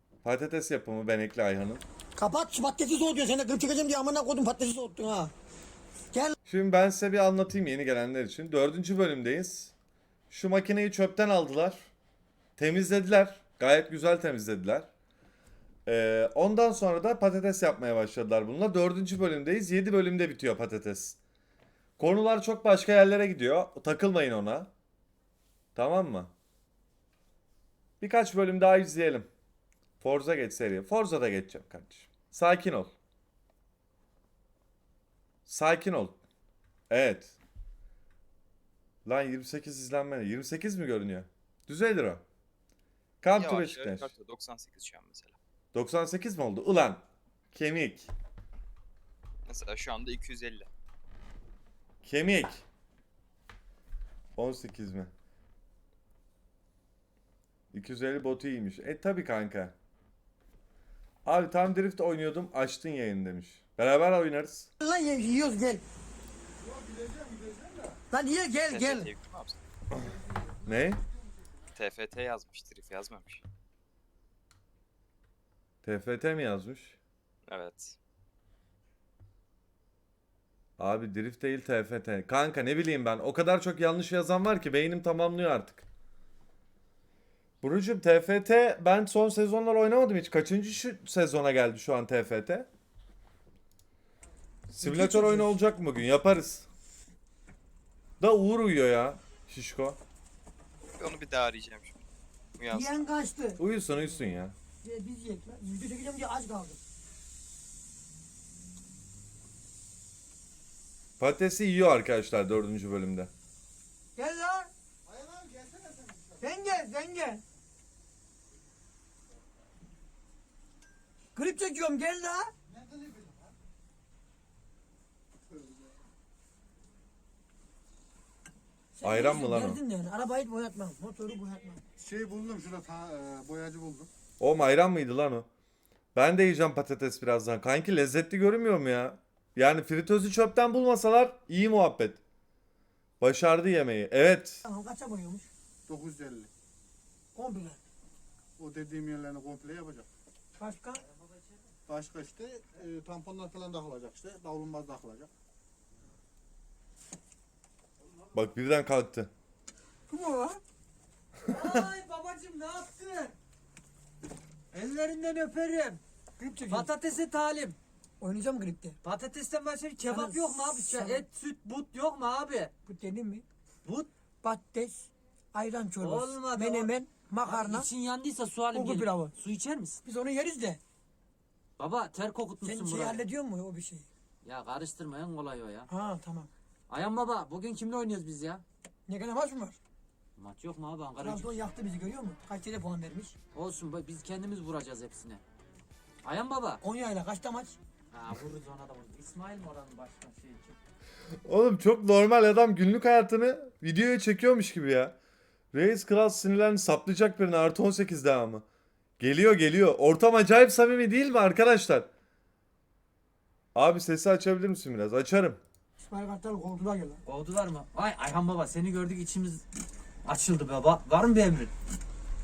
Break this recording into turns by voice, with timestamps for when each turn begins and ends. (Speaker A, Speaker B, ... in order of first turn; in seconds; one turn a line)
Speaker A: 0.2-1.8
Speaker B: 2.2-5.3
Speaker A: 6.5-9.7
Speaker A: 10.3-11.8
Speaker A: 12.6-14.9
Speaker A: 15.9-21.2
Speaker A: 22.0-24.7
Speaker A: 25.8-26.3
Speaker A: 28.0-29.3
Speaker A: 30.0-32.9
Speaker A: 35.5-36.2
Speaker A: 36.9-37.4
Speaker A: 39.1-42.2
Speaker A: 43.2-44.1
Speaker C: 43.3-45.4
Speaker A: 45.7-48.1
Speaker C: 49.5-50.7
Speaker A: 52.0-52.6
Speaker A: 54.4-55.1
Speaker A: 57.7-59.8
Speaker A: 61.2-64.7
Speaker B: 64.8-65.8
Speaker D: 66.8-67.9
Speaker B: 68.1-69.1
Speaker C: 68.7-69.6
Speaker A: 70.7-71.0
Speaker C: 71.7-73.4
Speaker A: 75.8-77.0
Speaker C: 77.5-78.0
Speaker A: 80.8-85.8
Speaker A: 87.6-92.7
Speaker A: 94.7-96.7
Speaker B: 94.8-95.5
Speaker A: 98.2-100.0
Speaker C: 101.0-102.0
Speaker C: 102.6-102.9
Speaker B: 102.7-103.6
Speaker A: 103.6-104.5
Speaker B: 104.8-106.8
Speaker A: 111.2-113.3
Speaker B: 114.2-114.7
Speaker D: 115.1-116.4
Speaker B: 116.4-117.4
Speaker B: 121.3-122.5
Speaker D: 122.7-123.5
Speaker B: 129.0-131.8
Speaker A: 129.0-129.8
Speaker D: 132.0-134.1
Speaker A: 134.4-135.5
Speaker A: 136.2-142.2
Speaker A: 143.2-144.6
Speaker B: 144.7-145.5
Speaker D: 145.9-146.5
Speaker B: 147.3-147.8
Speaker D: 148.6-150.1
Speaker B: 150.6-151.0
Speaker D: 151.9-155.3
Speaker A: 158.3-159.3
Speaker B: 160.1-160.6
Speaker E: 161.5-163.3
Speaker E: 164.7-166.0
Speaker B: 166.4-166.9
Speaker E: 166.7-167.8
Speaker B: 168.2-169.0
Speaker E: 169.0-172.7
Speaker B: 170.0-171.2
Speaker B: 172.9-173.4
Speaker B: 174.4-177.9
Speaker E: 176.0-176.9
Speaker E: 177.4-180.0
Speaker B: 178.7-179.3
Speaker B: 180.0-180.8
Speaker E: 181.8-183.2
Speaker B: 182.6-184.1
Speaker E: 184.4-185.9
Speaker B: 185.9-186.5
Speaker E: 186.9-188.6
Speaker B: 189.1-189.8
Speaker E: 190.4-191.6
Speaker B: 191.2-193.3
Speaker E: 193.5-195.4
Speaker E: 196.2-196.8
Speaker B: 196.8-197.8
Speaker E: 198.1-200.8
Speaker A: 201.4-205.2
Speaker A: 205.7-208.7
Speaker A: 209.2-212.1
Speaker A: 213.8-215.6
Speaker B: 216.0-217.2
Speaker E: 217.3-219.6
Speaker E: 220.2-221.7